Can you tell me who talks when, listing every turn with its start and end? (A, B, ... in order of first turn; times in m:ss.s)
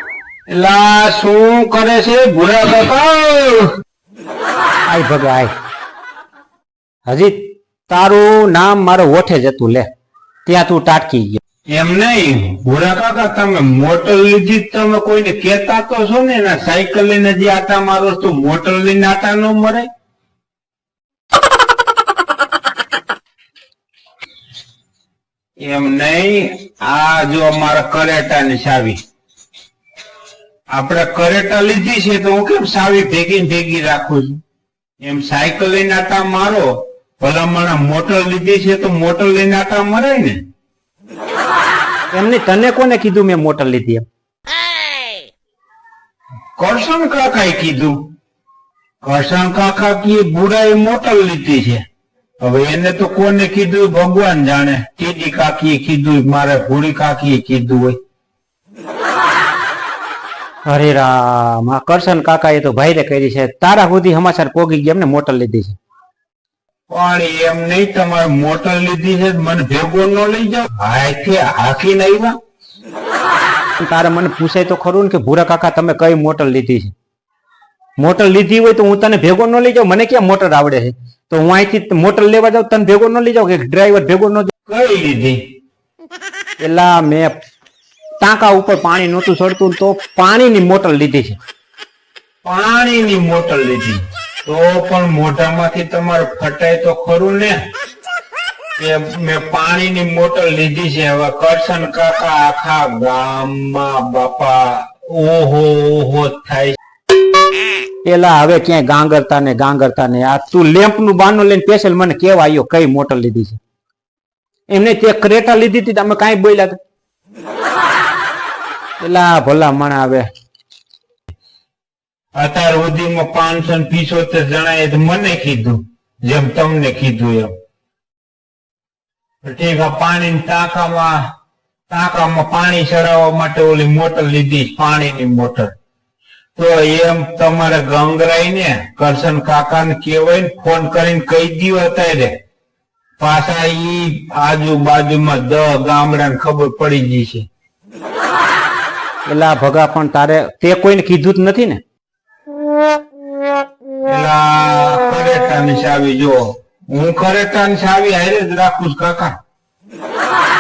0:00.5-0:03.7 A
0:04.9-0:05.5 B
0:07.1-0:09.9 B
0:10.5-0:11.4 B
0:11.7-0:19.9 A
0:25.6-0:29.0 A
0:30.7-0:34.4 A
0:35.0-0:36.7 A
0:37.2-0:40.4 A
0:42.1-0:44.0 B
0:46.6-0:48.0 A
0:49.0-0:51.8 A
0:52.4-0:58.0 A
1:00.7-1:05.8 B
1:06.9-1:12.4 A
1:13.8-1:16.9 B
1:18.0-1:24.5 B
1:24.7-1:25.4 A
1:26.6-1:27.3 B
1:28.2-1:31.4 B
1:32.4-1:37.6 A
1:38.8-1:46.8 A
1:48.0-1:53.6 B
1:54.7-1:56.8 B
1:59.0-2:00.3 B
2:02.4-2:07.5 A
2:09.4-2:11.2 A
2:11.9-2:15.8 A
2:16.6-2:22.4 A
2:23.2-2:27.5 A
2:29.3-2:31.8 B
2:34.1-2:39.4 A